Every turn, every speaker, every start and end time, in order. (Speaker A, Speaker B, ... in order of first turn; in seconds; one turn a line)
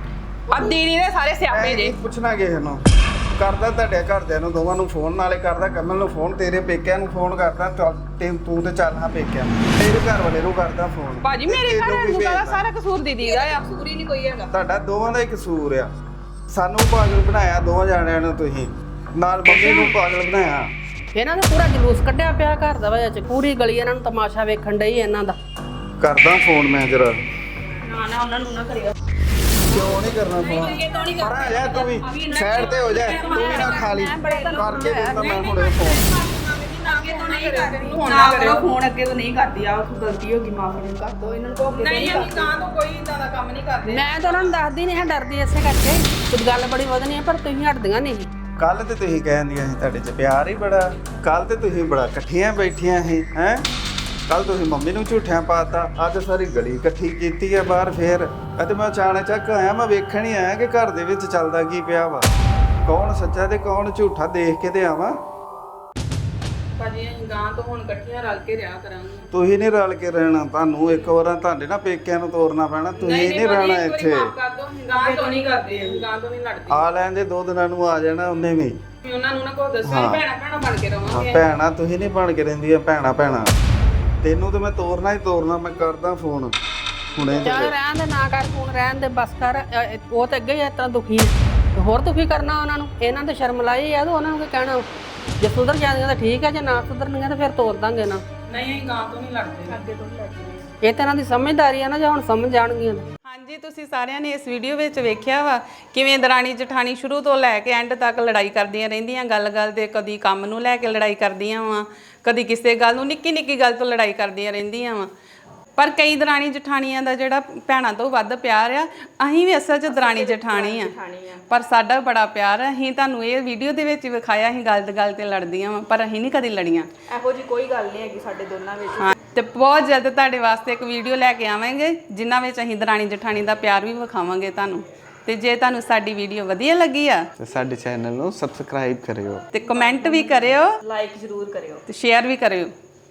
Speaker A: 0.5-1.9
Speaker B: 1.5-2.8
Speaker B: 3.4-12.6
Speaker A: 11.2-13.6
Speaker C: 13.2-14.5
Speaker B: 14.5-15.9
Speaker B: 16.5-20.7
Speaker A: 19.4-19.9
Speaker D: 21.1-25.4
Speaker B: 26.0-27.2
Speaker C: 27.8-28.9
Speaker B: 29.7-36.0
Speaker C: 29.7-42.5
Speaker A: 32.8-34.1
Speaker A: 36.9-38.6
Speaker A: 41.8-44.5
Speaker D: 43.9-48.3
Speaker B: 48.6-53.6
Speaker B: 54.3-62.3
Speaker B: 62.9-65.2
Speaker A: 66.8-69.3
Speaker B: 69.3-74.3
Speaker A: 73.0-76.9
Speaker C: 74.9-76.0
Speaker B: 76.7-78.8
Speaker A: 79.0-81.4
Speaker B: 79.8-80.2
Speaker B: 81.0-83.5
Speaker B: 84.2-86.5
Speaker B: 87.1-87.7
Speaker D: 87.2-94.8
Speaker D: 95.4-98.2
Speaker A: 98.5-99.8
Speaker C: 99.7-100.7
Speaker D: 100.8-103.0
Speaker A: 103.2-115.1
Speaker A: 115.8-120.9
Speaker C: 119.9-121.4
Speaker A: 121.5-126.9
Speaker C: 127.1-129.1
Speaker A: 129.0-137.3
Speaker B: 137.4-139.4
Speaker A: 139.5-140.7
Speaker C: 139.6-141.8
Speaker A: 141.9-142.7